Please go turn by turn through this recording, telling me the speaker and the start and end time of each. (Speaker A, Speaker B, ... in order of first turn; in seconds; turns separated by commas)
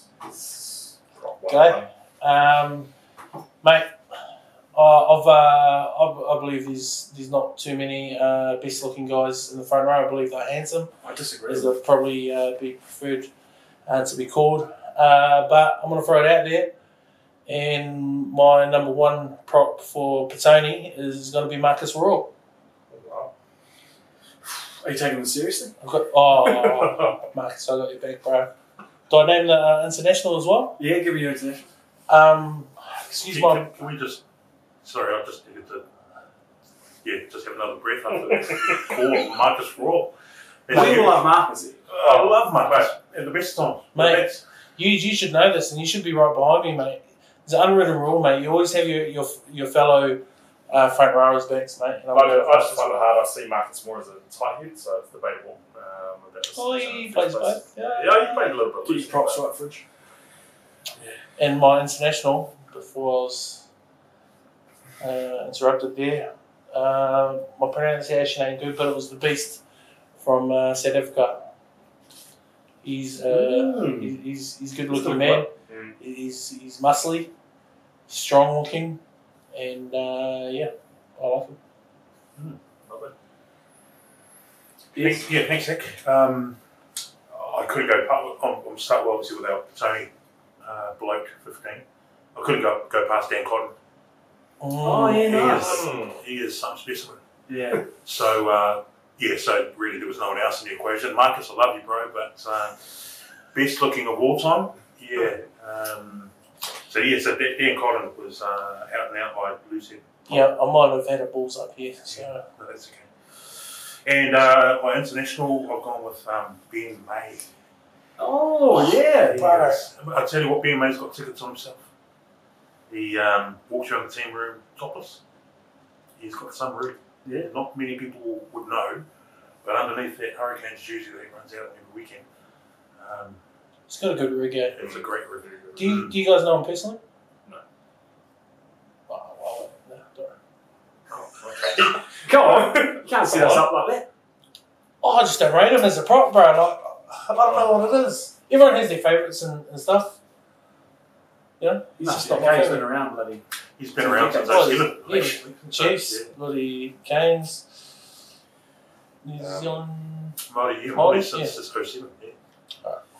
Speaker A: 0.2-1.9, Speaker B: 1.5-2.9, Speaker B: 3.6-3.9, Speaker B: 4.7-10.9, Speaker C: 11.0-11.8, Speaker B: 11.5-13.3, Speaker B: 13.9-16.7, Speaker B: 17.5-22.3, Speaker A: 22.9-23.3, Speaker C: 24.8-25.8, Speaker B: 25.8-28.5, Speaker A: 26.5-27.2, Speaker B: 29.1-30.8, Speaker C: 30.8-31.7, Speaker B: 32.1-33.8, Speaker D: 33.3-34.2, Speaker D: 34.8-35.9, Speaker D: 37.0-40.1, Speaker A: 38.5-38.9, Speaker D: 40.7-41.3, Speaker C: 40.7-41.8, Speaker D: 41.9-44.4, Speaker A: 42.0-42.9, Speaker B: 44.0-53.1, Speaker A: 52.1-59.4, Speaker B: 56.5-58.5, Speaker C: 58.9-59.8, Speaker B: 61.4-63.6, Speaker B: 65.0-69.6, Speaker B: 70.2-71.5, Speaker B: 72.8-77.3, Speaker C: 73.3-74.2, Speaker C: 75.0-75.4, Speaker A: 75.7-76.0, Speaker B: 78.1-79.0, Speaker B: 79.5-81.6, Speaker A: 82.9-83.1, Speaker C: 84.9-85.2, Speaker D: 85.0-86.6, Speaker D: 87.3-90.1, Speaker D: 90.6-93.8, Speaker B: 94.6-95.6, Speaker C: 94.8-95.8, Speaker D: 95.1-97.2, Speaker A: 95.5-96.2, Speaker C: 97.5-97.9, Speaker D: 97.9-106.3, Speaker D: 106.8-110.5, Speaker B: 110.3-112.4, Speaker D: 112.1-117.5, Speaker C: 118.2-119.5, Speaker D: 118.8-121.8, Speaker B: 118.8-119.8, Speaker D: 122.9-125.2, Speaker D: 126.2-129.1, Speaker C: 127.2-127.5, Speaker D: 129.6-132.2, Speaker D: 133.0-133.4, Speaker B: 133.9-134.8, Speaker D: 134.7-136.2, Speaker A: 134.8-135.9, Speaker B: 135.8-137.0, Speaker B: 139.1-140.3, Speaker A: 141.1-143.7, Speaker C: 142.2-144.1, Speaker B: 145.0-150.2, Speaker A: 147.4-147.8, Speaker B: 151.6-152.9, Speaker C: 152.0-153.4, Speaker D: 153.8-156.3, Speaker C: 154.0-154.9, Speaker B: 154.4-157.7, Speaker B: 159.2-160.4, Speaker A: 159.4-159.8, Speaker D: 160.5-162.4, Speaker B: 160.9-161.6